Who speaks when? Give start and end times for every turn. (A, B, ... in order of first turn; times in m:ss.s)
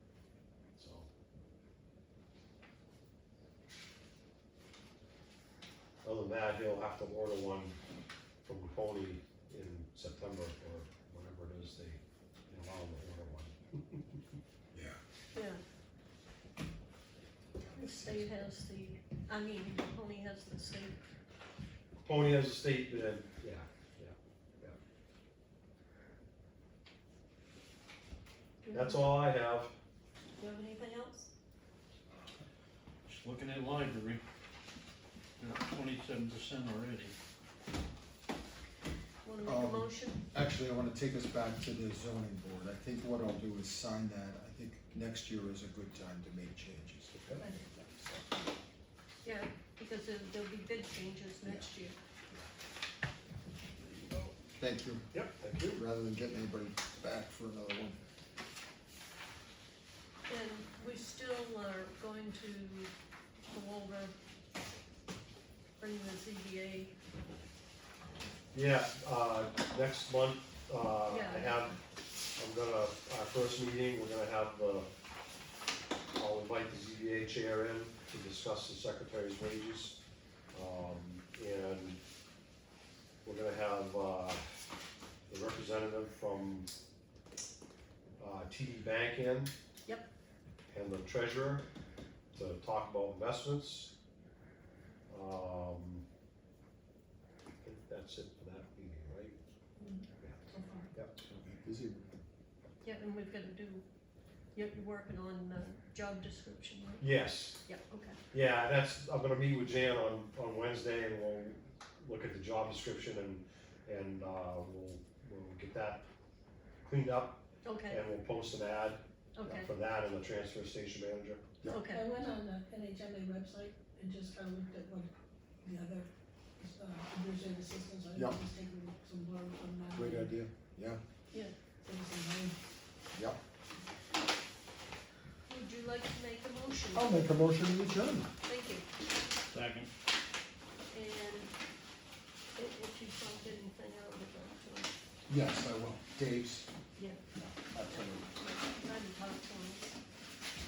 0:00.8-0:01.1 A
0:06.0-0:07.7 A
0:08.4-0:14.0 A
0:14.7-0:15.0 B
0:15.3-0:15.6 C
0:17.6-0:18.4 B
0:17.7-0:21.0 C
0:22.0-0:24.8 A
0:28.6-0:29.1 C
0:28.7-0:29.7 A
0:30.4-0:31.3 C
0:33.1-0:34.2 D
0:35.4-0:37.1 D
0:39.2-0:40.2 C
0:39.4-0:48.2 B
0:47.1-0:47.5 A
0:47.4-0:47.8 E
0:49.2-0:52.0 C
0:54.6-0:55.1 B
0:55.1-0:55.8 A
0:55.6-0:58.0 B
1:00.3-1:02.9 C
1:03.5-1:04.1 C
1:05.8-1:06.9 C
1:08.5-1:11.8 A
1:11.1-1:11.8 C
1:12.4-1:14.9 A
1:16.2-1:20.0 A
1:20.5-1:22.0 A
1:23.2-1:24.4 A
1:25.3-1:26.7 A
1:28.2-1:29.5 A
1:30.7-1:31.6 A
1:32.3-1:33.9 A
1:35.1-1:36.0 A
1:37.6-1:39.4 A
1:39.8-1:40.9 E
1:40.2-1:41.2 A
1:41.2-1:42.1 B
1:42.8-1:43.8 C
1:44.6-1:48.2 C
1:47.0-1:47.6 A
1:48.3-1:56.0 A
1:56.8-2:01.4 A
1:57.6-1:58.0 C
1:59.4-1:59.7 C
2:01.6-2:01.9 B
2:01.7-2:02.1 C
2:01.9-2:05.1 E
2:05.6-2:10.3 E
2:08.2-2:08.4 B
2:09.9-2:11.0 B
2:11.8-2:12.6 E
2:13.1-2:13.4 B
2:15.5-2:17.3 C
2:16.9-2:18.3 B
2:18.4-2:18.9 C
2:19.5-2:19.9 D
2:20.9-2:21.5 C
2:22.6-2:24.9 C
2:25.3-2:26.7 B
2:27.0-2:27.2 C
2:27.4-2:28.3 B
2:28.2-2:30.0 C